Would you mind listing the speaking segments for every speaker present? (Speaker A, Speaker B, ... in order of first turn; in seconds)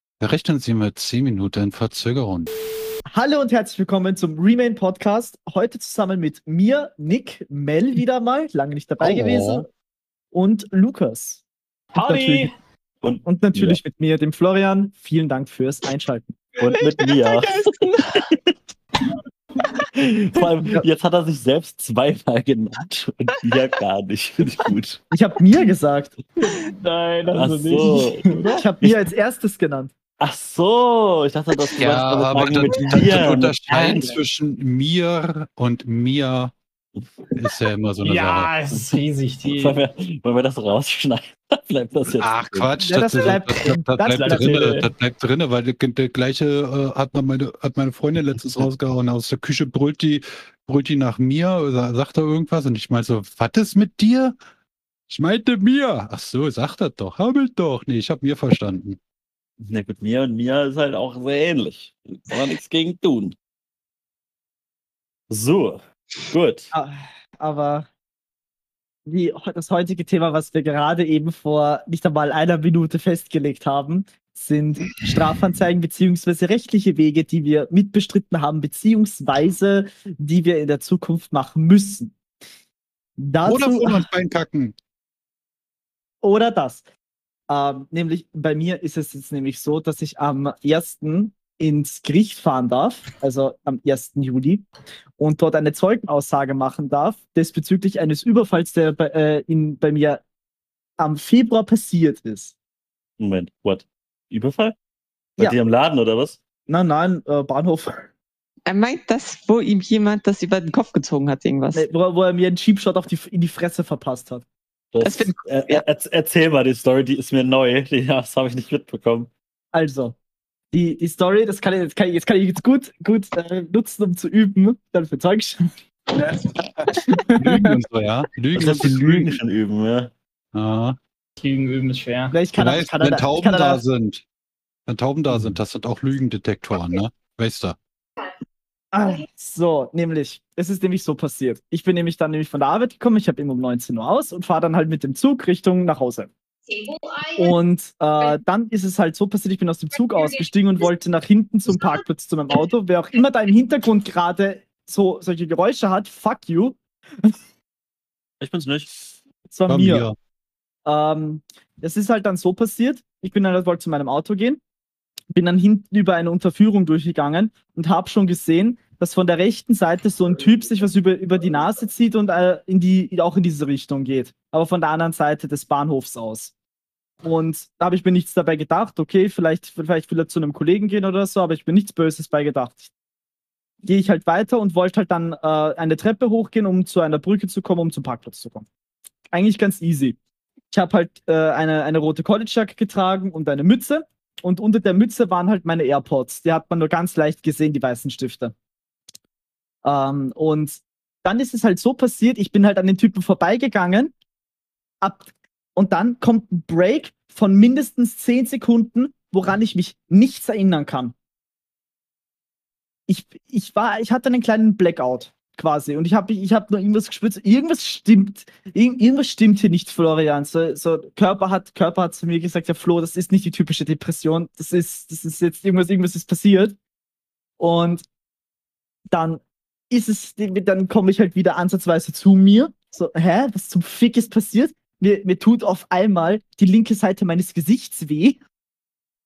Speaker A: 0.2-2.5, 9.0-9.7, 31.8-36.5, 37.4-38.5, 42.1-54.4, 55.1-59.0, 83.4-84.7, 126.8-129.4, 130.5-131.0, 132.5-134.2, 134.9-137.8, 159.7-160.1
Speaker B: 3.1-9.7, 10.3-11.4, 11.9-12.5, 13.2-16.4, 25.1-26.2, 28.5-29.9, 33.7-34.1, 42.8-44.6, 66.7-67.9, 69.0-82.1, 83.2-84.1, 86.2-86.8, 87.5-94.6, 95.2-100.2, 101.0-102.5, 106.7-108.1, 111.7-114.4, 119.7-120.1, 120.7-125.7, 126.9-127.7, 132.3-133.8, 138.9-146.3, 147.3-157.3, 159.5-160.1, 160.8-164.6, 165.3-176.5, 177.2-182.9, 183.8-188.7, 189.3-190.2, 190.7-198.5, 199.8-204.1, 205.0-211.1, 213.1-226.8, 227.6-228.0, 229.1-238.4
Speaker C: 11.9-12.5, 26.4-28.7, 38.0-39.8, 44.1-44.9, 131.4-132.4
Speaker D: 13.0-13.8, 16.6-18.4, 19.8-25.0, 27.3-28.2, 30.2-33.6, 38.7-42.7, 59.6-63.4, 65.3-66.7, 103.2-104.8, 105.4-106.4, 114.9-119.3, 128.5-130.1, 158.4-158.9
Speaker E: 17.1-18.2, 108.7-111.8, 115.0-115.8